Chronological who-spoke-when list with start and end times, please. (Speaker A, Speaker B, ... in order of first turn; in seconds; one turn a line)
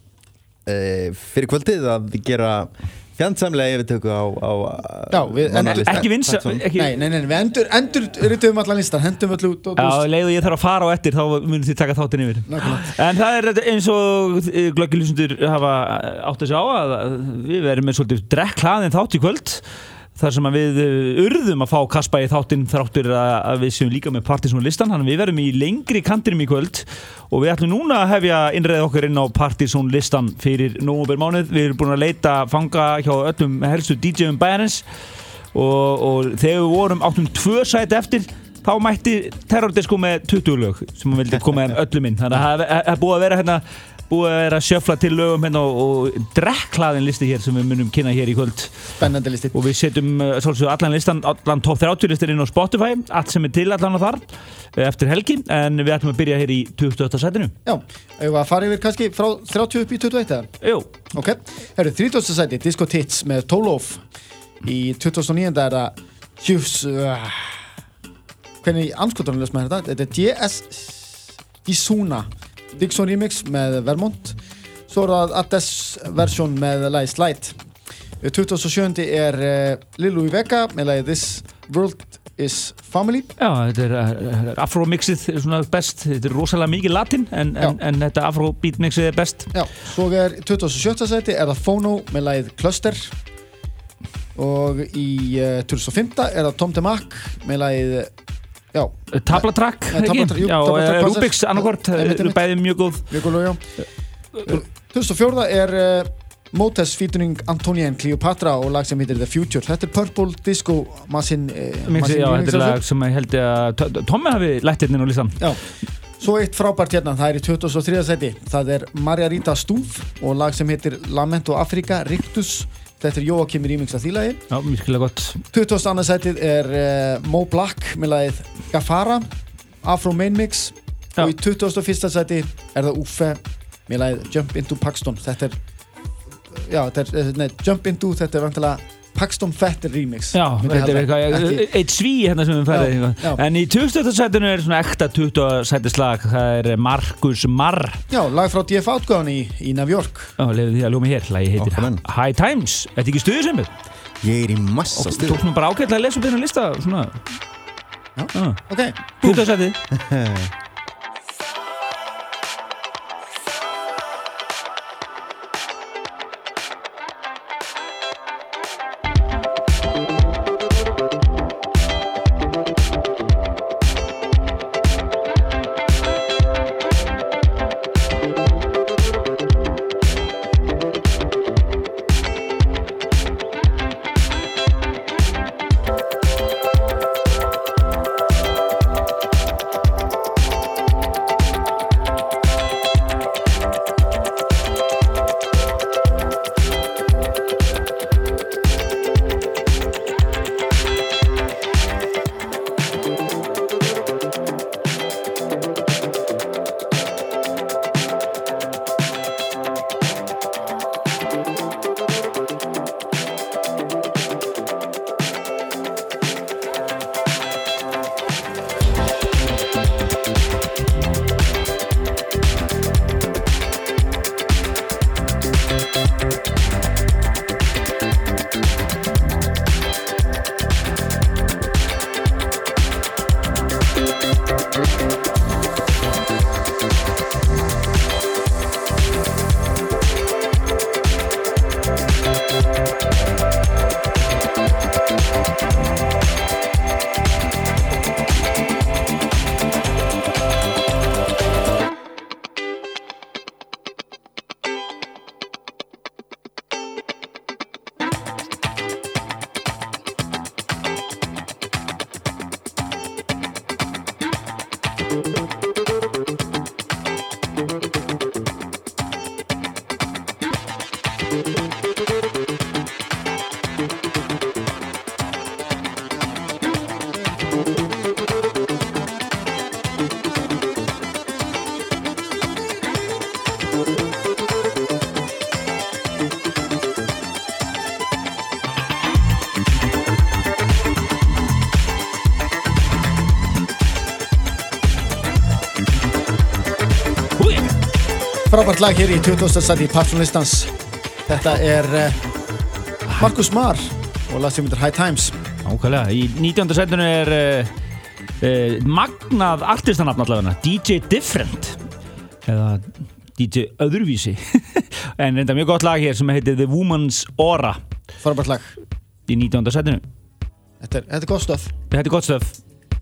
Speaker A: 0.7-6.7
Speaker B: 5.1-6.0
Speaker C: 5.6-7.0
Speaker B: 6.8-10.0
Speaker C: 9.8-34.8
Speaker B: 12.5-12.9
Speaker C: 35.5-49.0
Speaker B: 49.0-49.6
Speaker C: 49.5-57.5
Speaker B: 57.6-60.5
Speaker C: 60.6-60.9
Speaker B: 61.1-64.0
Speaker B: 64.6-67.7
Speaker B: 68.6-77.6
Speaker B: 78.2-83.3
Speaker C: 83.4-89.5
Speaker B: 89.5-93.2
Speaker B: 94.3-98.1
Speaker B: 98.7-102.4
Speaker C: 99.1-103.2
Speaker B: 103.1-103.7
Speaker B: 104.5-112.8
Speaker C: 111.9-115.5
Speaker B: 115.4-124.4
Speaker C: 124.5-125.4
Speaker B: 125.5-129.3
Speaker B: 129.8-135.6
Speaker B: 136.5-141.7
Speaker C: 140.3-148.0
Speaker B: 142.7-143.4
Speaker B: 148.1-150.3
Speaker C: 150.4-153.7
Speaker A: 151.6-152.0
Speaker A: 154.2-155.4
Speaker C: 154.9-157.4
Speaker B: 158.2-159.0
Speaker C: 158.3-158.6
Speaker C: 159.2-159.8
Speaker A: 159.2-160.5
Speaker C: 297.4-297.7
Speaker B: 298.5-300.8
Speaker B: 301.3-302.2
Speaker B: 303.2-305.4
Speaker C: 305.6-307.7
Speaker C: 308.4-311.8
Speaker C: 312.4-317.8
Speaker B: 318.2-318.8
Speaker C: 319.3-320.0
Speaker B: 320.8-321.7
Speaker C: 321.9-322.6